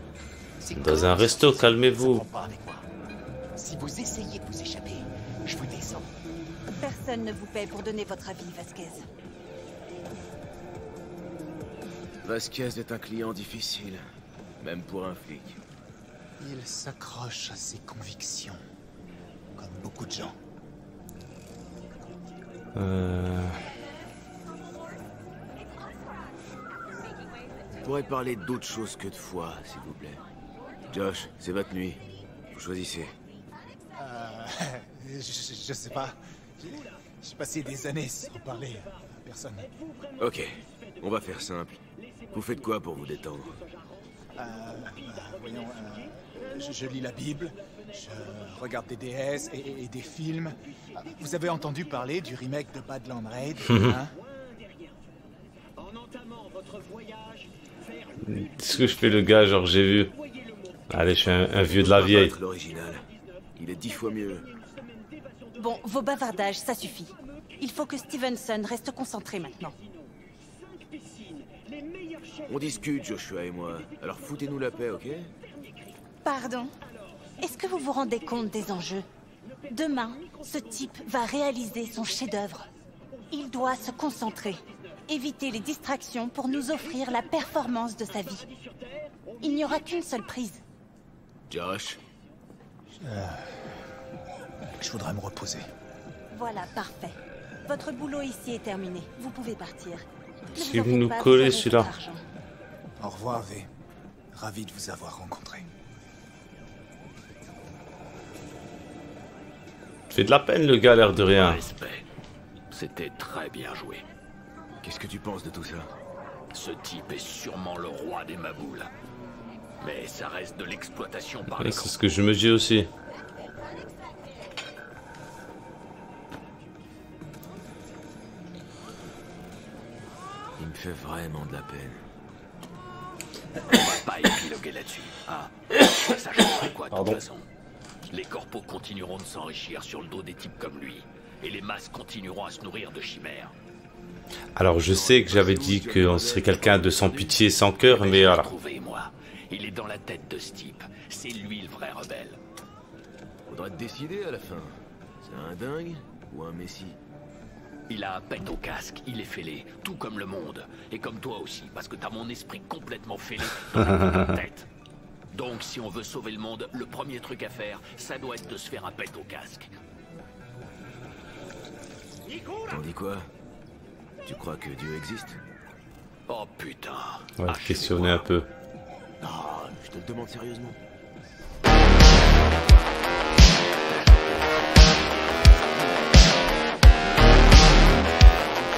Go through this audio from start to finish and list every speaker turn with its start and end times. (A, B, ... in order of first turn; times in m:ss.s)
0:00.6-0:02.8 A
0:00.7-0:02.2 B
0:03.6-0:06.1 A
0:06.8-0:09.0 C
0:12.2-0:14.0 D
0:14.6-0:15.6 D
0:16.4-0:18.6 E
0:19.6-0:20.4 E
0:22.7-0:23.6 B
0:27.8-0:30.2 D
0:30.9-0:33.1 D
0:33.9-0:39.7 E
0:40.2-0:41.8 D
0:42.3-0:43.6 D
0:44.4-0:54.1 E
0:58.2-1:00.1 B
1:00.9-1:02.3 B
1:01.7-1:04.5 D
1:05.5-1:09.8 C
1:12.5-1:15.3 D
1:16.2-1:16.7 C
1:17.4-1:19.0 C
1:19.7-1:22.6 C
1:23.3-1:28.5 C
1:29.4-1:30.6 C
1:31.5-1:32.0 D
1:33.0-1:33.8 E
1:34.8-1:35.7 E
1:36.3-1:42.2 C
1:40.5-1:41.9 B
1:43.0-1:43.7 E
1:44.3-1:45.7 E
1:50.1-1:51.7 B
1:51.4-1:52.1 F
1:52.7-1:54.0 F
1:54.8-1:55.9 D
1:56.5-1:58.9 F
1:59.8-2:01.9 F
2:01.6-2:02.9 B
2:10.6-2:12.0 D
2:13.6-2:17.5 F
2:16.9-2:17.2 B
2:18.1-2:23.5 F
2:24.6-2:28.5 B
2:24.8-2:27.5 D
2:27.9-2:32.4 F
2:33.5-2:37.0 D
2:37.9-2:44.7 F
2:45.3-2:49.7 F
2:52.7-2:53.3 D
2:54.2-2:55.4 D
2:56.3-2:58.2 F
2:57.4-2:58.5 B
2:59.2-3:00.8 D
3:05.6-3:06.0 D